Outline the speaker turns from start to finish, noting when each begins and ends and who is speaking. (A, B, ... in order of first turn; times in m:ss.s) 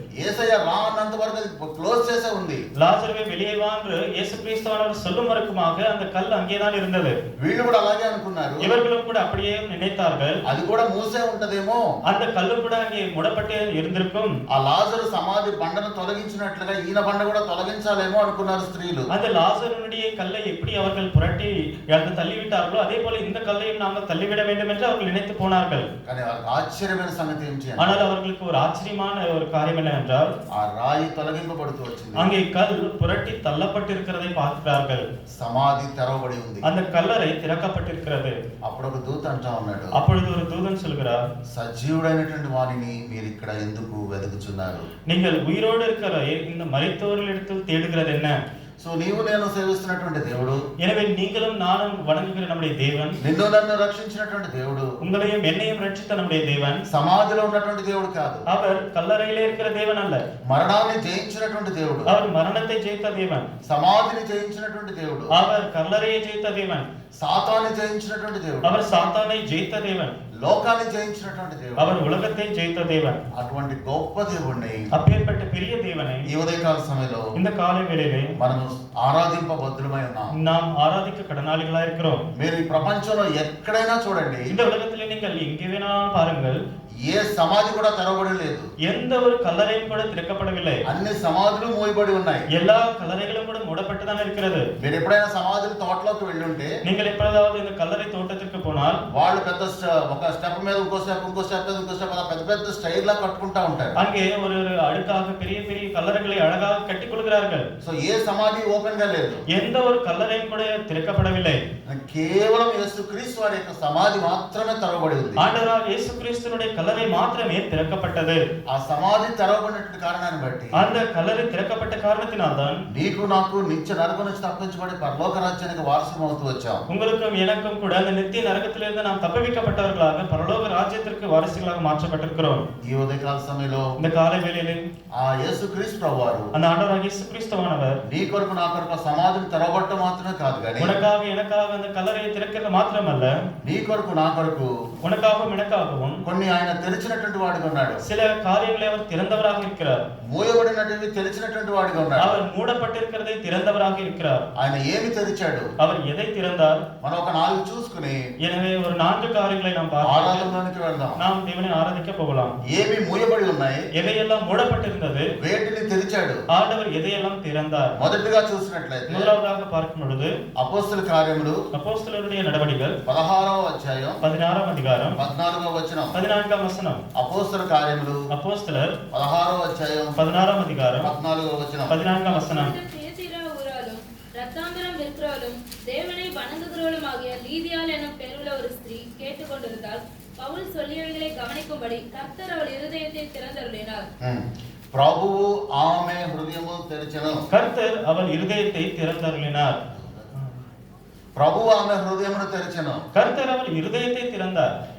0:00.2-0:02.6 A
0:02.8-0:07.2 B
0:07.4-0:08.7 A
0:08.6-0:10.4 B
0:10.5-0:11.8 A
0:12.0-0:14.3 B
0:14.5-0:19.1 A
0:19.1-0:25.9 B
0:26.0-0:28.0 A
0:27.8-0:30.3 B
0:30.5-0:32.3 A
0:32.2-0:35.0 B
0:35.3-0:36.7 A
0:36.6-0:38.4 B
0:38.6-0:40.0 A
0:40.0-0:41.2 B
0:41.5-0:44.9 A
0:45.1-0:48.4 B
0:48.8-0:50.6 A
0:50.8-0:53.2 B
0:53.2-0:54.9 A
0:55.0-0:56.8 B
0:56.9-0:58.4 A
0:58.5-1:00.2 B
1:00.5-1:02.2 A
1:02.1-1:03.5 B
1:03.6-1:05.3 A
1:05.3-1:06.9 B
1:07.2-1:08.8 A
1:08.6-1:10.2 B
1:10.4-1:12.0 A
1:11.8-1:13.2 B
1:13.3-1:14.9 A
1:14.9-1:16.3 B
1:16.3-1:17.3 A
1:17.4-1:18.3 B
1:18.4-1:20.4 A
1:20.4-1:22.2 B
1:22.3-1:24.5 A
1:24.5-1:26.6 B
1:27.0-1:28.7 A
1:28.8-1:30.8 B
1:30.9-1:32.5 A
1:32.5-1:34.7 B
1:34.8-1:36.7 A
1:36.8-1:39.0 B
1:39.1-1:44.0 A
1:44.0-1:47.7 B
1:47.8-1:49.4 A
1:49.5-1:51.6 B
1:51.8-1:55.5 A
1:55.4-1:58.4 B
1:58.7-2:00.9 A
2:00.8-2:02.8 B
2:02.9-2:06.8 A
2:06.9-2:12.6 B
2:12.8-2:13.9 A
2:14.0-2:14.9 B
2:15.1-2:16.5 A
2:16.5-2:18.0 B
2:18.0-2:21.0 A
2:20.8-2:23.3 B
2:23.6-2:24.7 A
2:25.0-2:26.2 B
2:26.2-2:28.0 A
2:28.0-2:30.0 B
2:30.2-2:32.4 A
2:32.2-2:34.4 B
2:34.6-2:35.7 A
2:35.8-2:36.8 B
2:37.0-2:38.2 A
2:38.4-2:40.5 B
2:40.0-2:41.2 A
2:41.2-2:42.6 B
2:42.7-2:43.8 A
2:43.9-2:45.3 B
2:45.4-2:46.4 A
2:46.5-2:48.0 B
2:48.0-2:49.3 A
2:49.1-2:50.4 B
2:50.6-2:51.6 A
2:51.7-2:53.0 B
2:53.0-2:54.2 A
2:54.2-2:55.2 B
2:55.2-2:56.2 A
2:56.1-2:57.0 B
2:57.1-2:58.2 A
2:58.3-2:59.0 B
2:59.1-3:00.2 A
3:00.2-3:01.1 B
3:01.0-3:02.0 A
3:01.9-3:02.8 B
3:02.3-3:14.1 C
3:14.2-3:17.4 A
3:17.5-3:19.8 B
3:19.9-3:20.3 A
3:21.4-3:23.0 A
3:23.1-3:24.7 B